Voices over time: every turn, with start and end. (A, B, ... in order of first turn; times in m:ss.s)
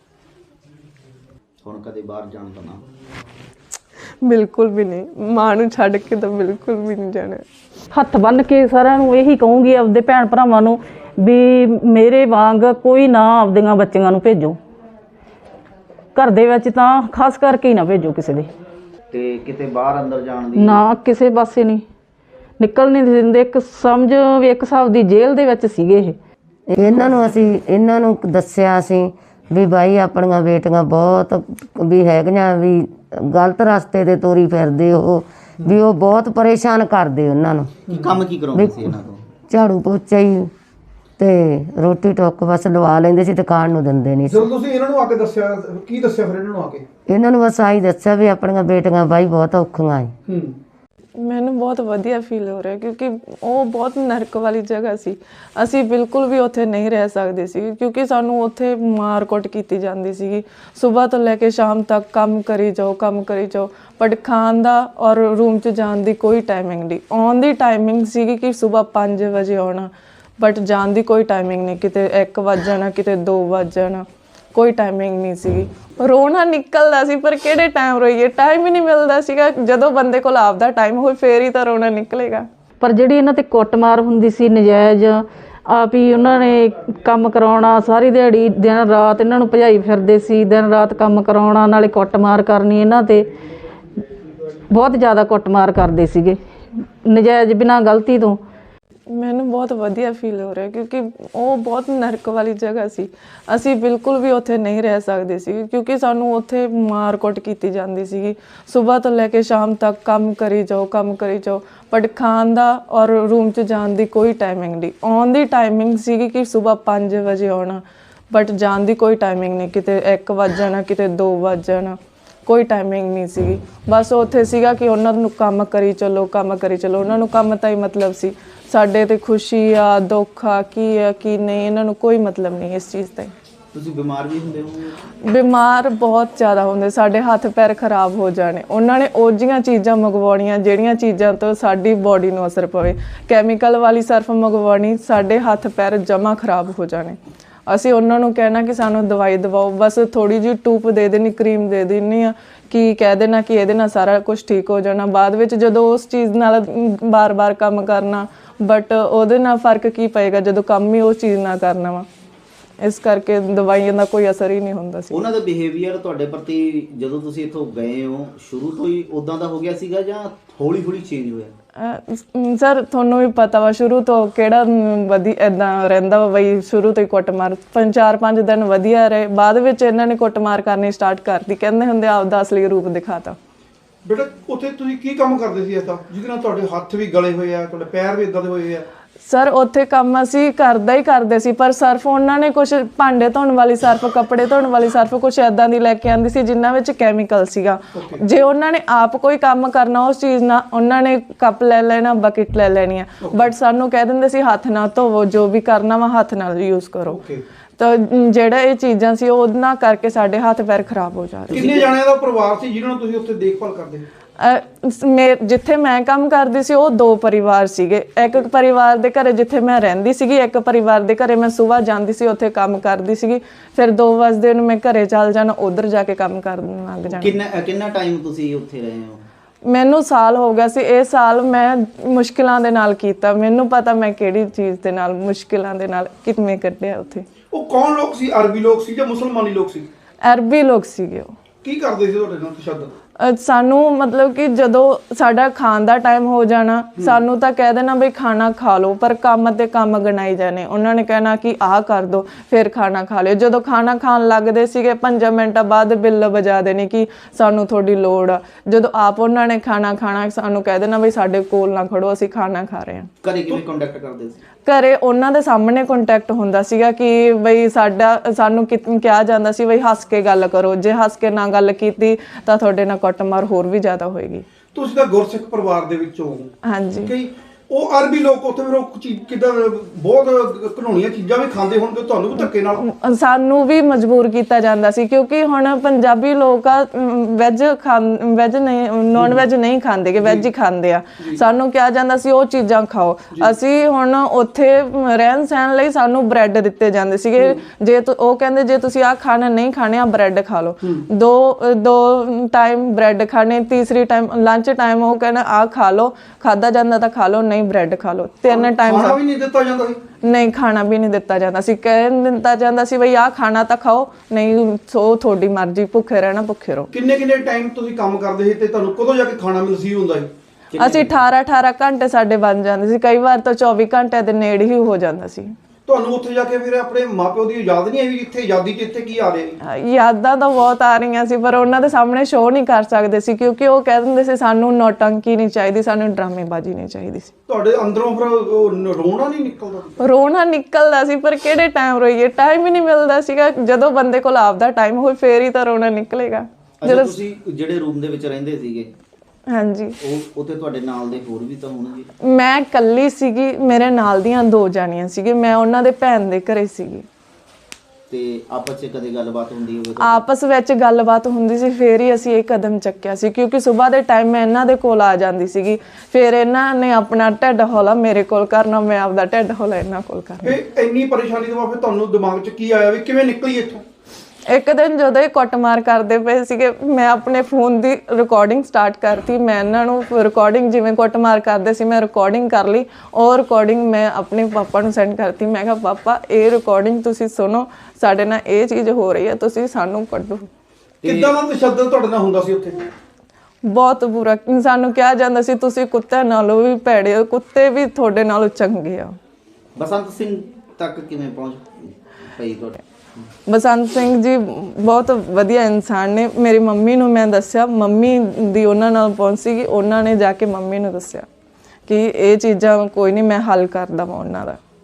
0:01.6-0:02.8 A
0:04.2-0:07.4 B
0:07.9-0:14.6 C
0:16.2-0:18.5 C
0:19.1-0:20.8 A
0:20.5-0:21.8 C
0:22.6-0:26.1 C
0:26.7-0:37.7 D
0:37.9-0:38.2 E
0:37.9-0:39.2 A
0:38.5-0:38.9 D
0:39.5-0:40.5 D
0:41.2-0:44.5 D
0:44.3-0:46.8 E
0:47.1-0:50.1 D
0:50.3-0:50.6 E
0:51.2-1:22.5 B
1:22.8-1:25.2 C
1:25.7-1:33.3 C
1:34.7-1:36.4 C
1:37.0-1:38.4 C
1:39.1-2:13.3 B
2:13.7-2:15.0 A
2:15.2-2:42.1 B
2:42.8-2:45.2 B
2:45.1-2:51.5 A
2:51.8-3:03.4 B
3:04.0-3:08.8 E
3:09.2-3:27.2 B
3:17.9-3:18.2 E
3:23.2-3:23.5 E
3:27.1-3:27.4 E
3:27.8-3:31.7 B
3:31.5-3:31.9 A
3:31.5-3:34.0 E
3:34.4-3:47.4 B
3:47.1-3:49.2 A
3:49.6-3:57.2 B
3:57.5-3:59.9 E
4:00.2-4:01.3 B
4:01.6-4:02.9 E
4:03.2-4:23.1 B
4:23.2-4:24.4 A
4:24.6-4:34.4 B
4:34.7-4:36.5 E
4:36.6-4:37.1 B
4:37.0-4:42.8 E
4:42.8-5:09.2 B
4:49.2-4:49.4 E
4:50.2-4:50.5 E
5:08.5-5:10.0 E
5:10.2-5:16.9 B
5:16.9-5:20.3 E
5:20.7-5:21.2 A
5:20.8-5:25.5 B
5:25.8-5:29.6 E
5:29.6-5:37.3 B
5:37.5-5:40.0 E
5:40.0-5:47.2 B
5:46.8-5:48.9 A
5:49.5-5:50.0 B
5:50.0-5:52.1 A
5:52.2-5:57.0 B
5:58.1-6:00.2 A
6:00.0-6:10.6 B
6:10.4-6:13.8 E
6:14.5-6:30.5 B
6:31.0-6:31.3 A
6:31.0-6:32.8 E
6:33.6-6:39.2 B
6:39.8-6:41.7 A
6:42.3-6:42.8 A
6:43.5-6:51.2 B
6:51.9-6:54.6 B